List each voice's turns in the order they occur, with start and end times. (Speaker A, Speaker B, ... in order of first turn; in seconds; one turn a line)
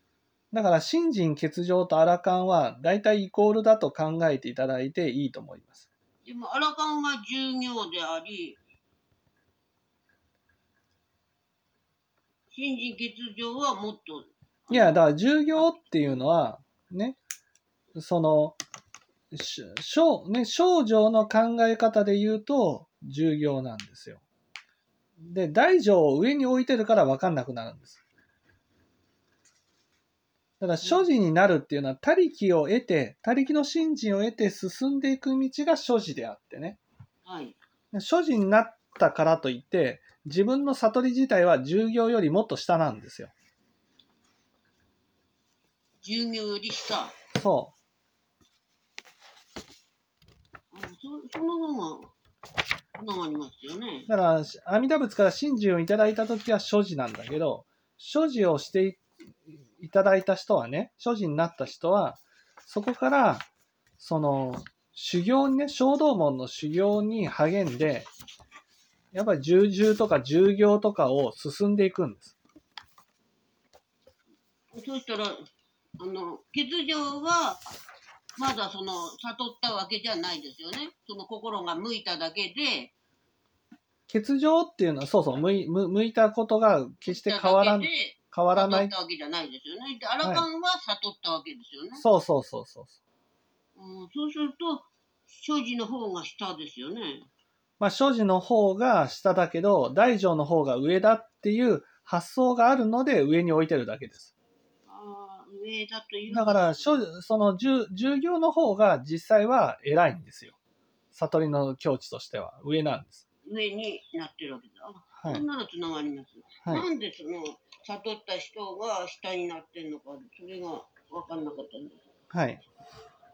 Speaker A: 0.5-5.9
Speaker B: 6.2-8.6
Speaker B: 12.5-15.0
Speaker A: 14.7-17.2
Speaker A: 17.9-18.6
Speaker A: 19.3-24.2
Speaker A: 25.2-28.0
Speaker A: 30.6-36.8
Speaker B: 30.8-31.1
Speaker B: 37.2-37.6
Speaker A: 37.9-43.3
Speaker B: 46.0-47.1
Speaker A: 47.3-47.7
Speaker B: 50.7-52.1
Speaker B: 53.0-54.1
Speaker A: 54.1-59.0
Speaker A: 59.8-63.5
Speaker A: 64.0-68.1
Speaker A: 69.1-72.3
Speaker B: 74.7-75.4
Speaker B: 76.0-77.6
Speaker B: 78.4-82.9
Speaker A: 84.1-88.9
Speaker B: 87.0-92.0
Speaker A: 92.0-93.0
Speaker B: 93.8-97.3
Speaker A: 97.8-104.3
Speaker B: 104.9-107.0
Speaker A: 106.3-110.6
Speaker A: 111.1-113.2
Speaker B: 113.5-122.0
Speaker A: 115.2-115.4
Speaker A: 122.3-122.6